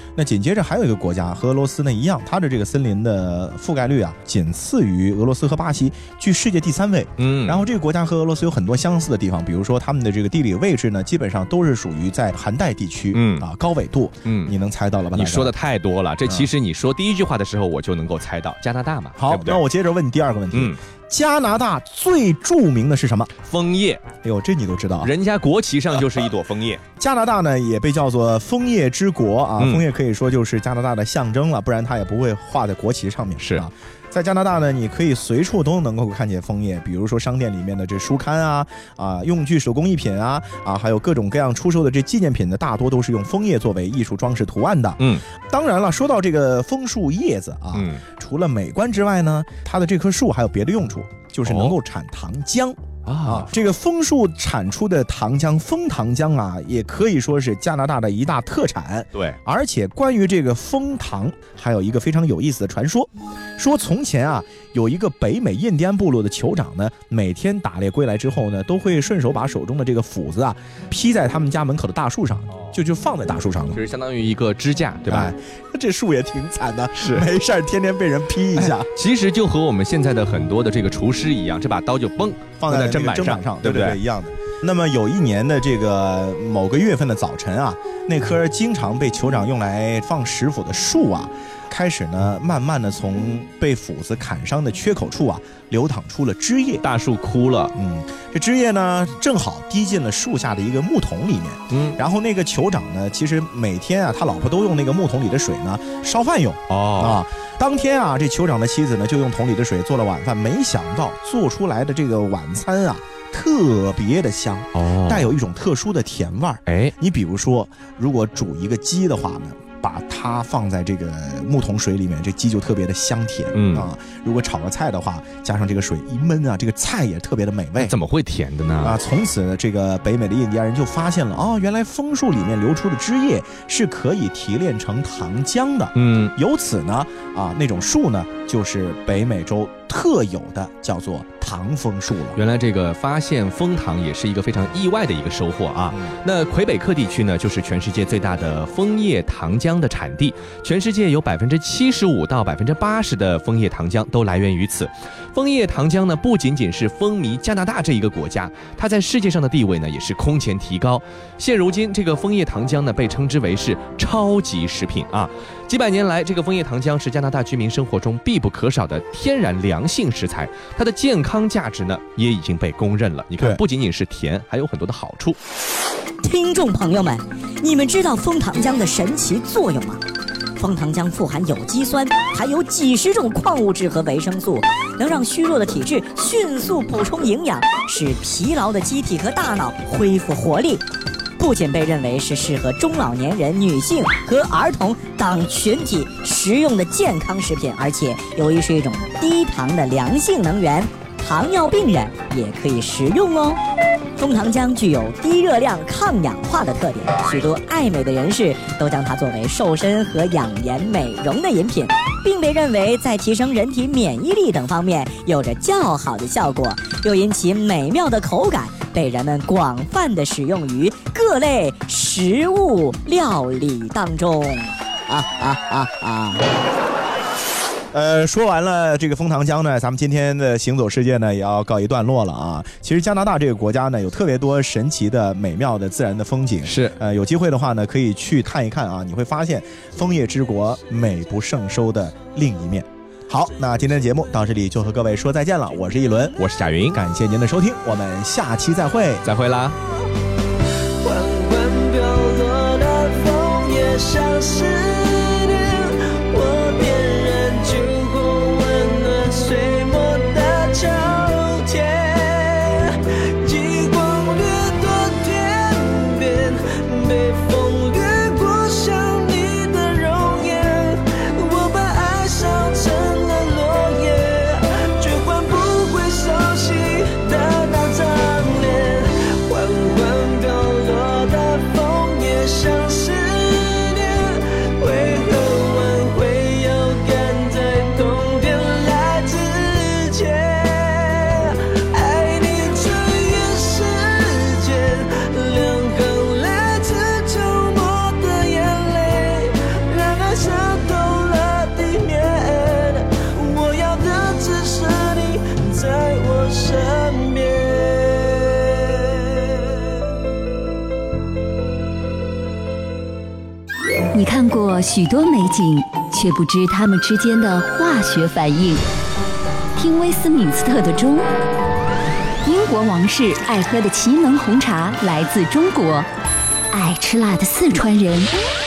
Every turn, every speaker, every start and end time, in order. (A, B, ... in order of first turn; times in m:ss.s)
0:00.2-0:15.5 A
0:07.2-0:07.6 B
0:13.1-0:13.5 B
0:14.2-0:14.5 B
0:15.2-0:19.6 B
0:19.2-0:23.3 A
0:23.4-0:24.0 B
0:24.2-0:25.1 A
0:25.0-0:26.8 B
0:27.0-1:13.8 A
0:29.6-0:29.8 B
0:33.4-0:33.6 B
0:45.0-0:45.2 B
0:47.7-0:48.0 B
0:51.4-0:51.8 B
0:53.0-0:53.5 B
1:13.7-1:15.3 B
1:15.1-1:18.9 A
1:17.0-1:17.2 B
1:18.6-1:24.0 B
1:22.6-1:36.8 A
1:36.8-1:37.7 B
1:37.7-2:07.9 A
1:41.7-1:42.0 B
1:46.7-1:47.2 B
1:54.7-1:55.3 B
1:56.6-1:56.9 B
2:03.5-2:03.9 B
2:07.8-2:09.0 B
2:08.8-2:22.4 A
2:15.9-2:16.3 B
2:22.3-2:55.4 B
2:56.2-3:00.0 C
3:00.6-3:10.8 C
3:11.4-3:23.6 C
3:24.2-3:44.7 C
3:45.1-3:46.4 A
3:47.9-4:06.4 A
3:56.6-3:57.0 B
4:06.4-4:07.0 B
4:06.9-4:09.2 A
4:09.2-4:09.8 B
4:11.0-5:09.8 D
5:14.1-5:18.8 E
5:19.8-5:21.3 E
5:22.4-5:26.1 E
5:26.7-5:28.3 E